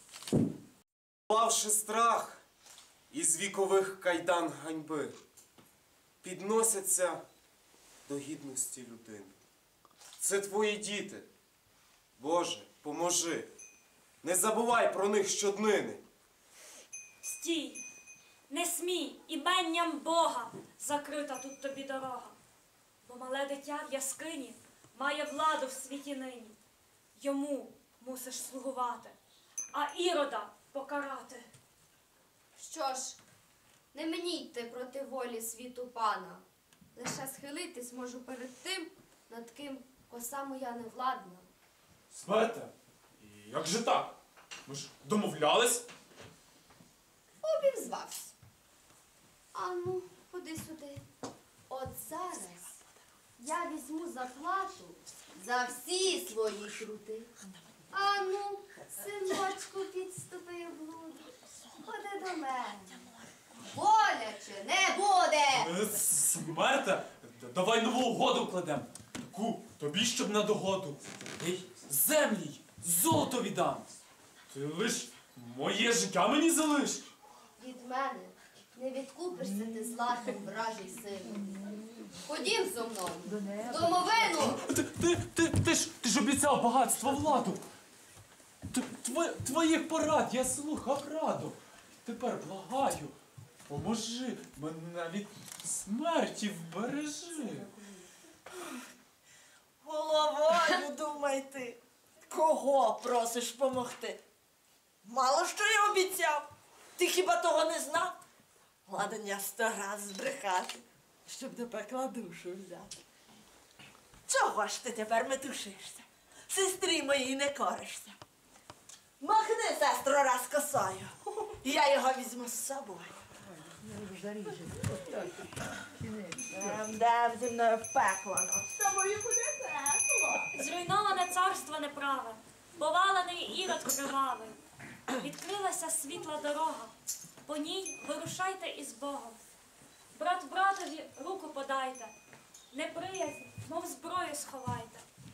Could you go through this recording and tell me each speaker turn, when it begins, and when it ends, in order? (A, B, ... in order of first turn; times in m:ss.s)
0:01.3-0:02.4 A
0:03.1-0:05.2 A
0:06.2-0:07.2 A
0:08.0-0:09.3 A
0:10.2-0:11.3 A
0:12.2-0:13.5 A
0:14.2-0:16.0 A
0:17.2-0:17.8 B
0:18.5-0:22.3 B
0:23.0-0:26.6 B
0:27.2-0:29.1 B
0:29.7-0:31.5 B
0:32.6-0:33.2 C
0:33.9-0:36.4 C
0:36.9-0:41.5 C
0:42.1-0:44.1 D
0:44.6-0:45.8 D
0:47.4-0:48.3 C
0:49.5-0:51.0 C
0:51.7-0:52.8 C
0:53.4-0:57.3 C
0:57.9-1:03.0 C
1:03.6-1:05.7 C
1:05.5-1:13.9 D
1:14.5-1:17.1 D
1:17.6-1:24.6 C
1:24.4-1:27.6 D
1:28.7-1:33.1 D
1:33.7-1:37.7 D
1:39.8-1:44.2 E
1:45.0-1:48.2 E
1:48.9-1:52.9 E
1:54.3-1:58.2 E
1:59.2-2:03.2 E
2:03.7-2:05.3 E
2:06.2-2:10.5 E
2:10.5-2:14.6 B
2:15.2-2:16.9 B
2:17.4-2:19.4 B
2:20.1-2:22.1 B
2:22.7-2:25.0 B